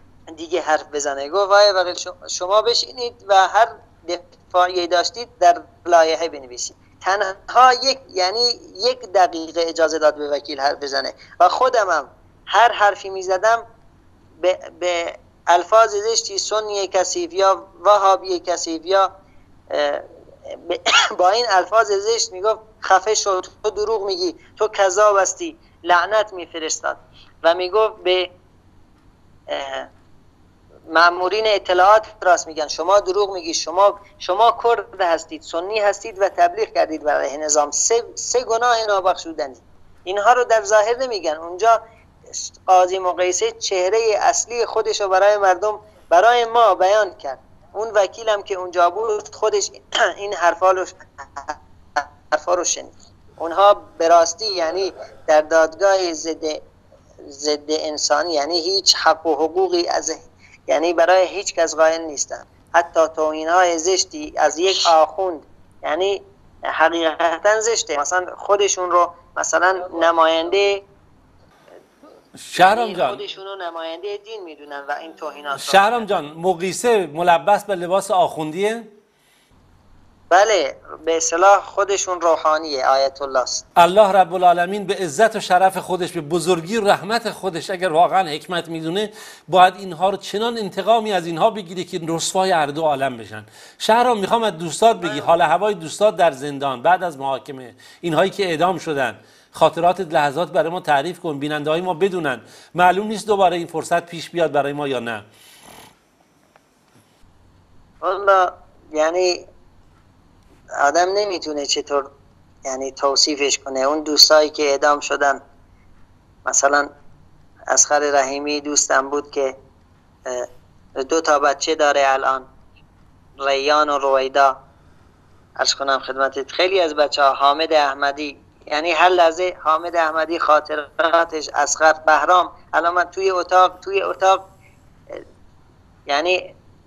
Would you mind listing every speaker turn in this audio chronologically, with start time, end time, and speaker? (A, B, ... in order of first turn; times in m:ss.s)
0:00.3-0:13.6 A
0:14.4-0:19.1 A
0:19.7-0:28.3 A
0:29.5-0:29.9 A
0:30.9-0:41.8 A
0:42.7-0:56.6 A
0:57.3-1:10.8 A
1:12.4-1:13.2 B
1:12.5-1:16.1 A
1:15.6-1:18.9 B
1:20.3-1:23.6 A
1:23.8-1:45.2 B
1:35.0-1:35.3 A
1:48.0-1:49.4 A
1:50.8-1:52.1 A
1:52.6-1:55.4 A
1:56.4-1:56.9 A
1:57.7-1:59.5 A
2:01.0-2:02.4 A
2:03.4-2:04.5 A
2:05.6-2:14.4 A
2:16.1-2:16.5 A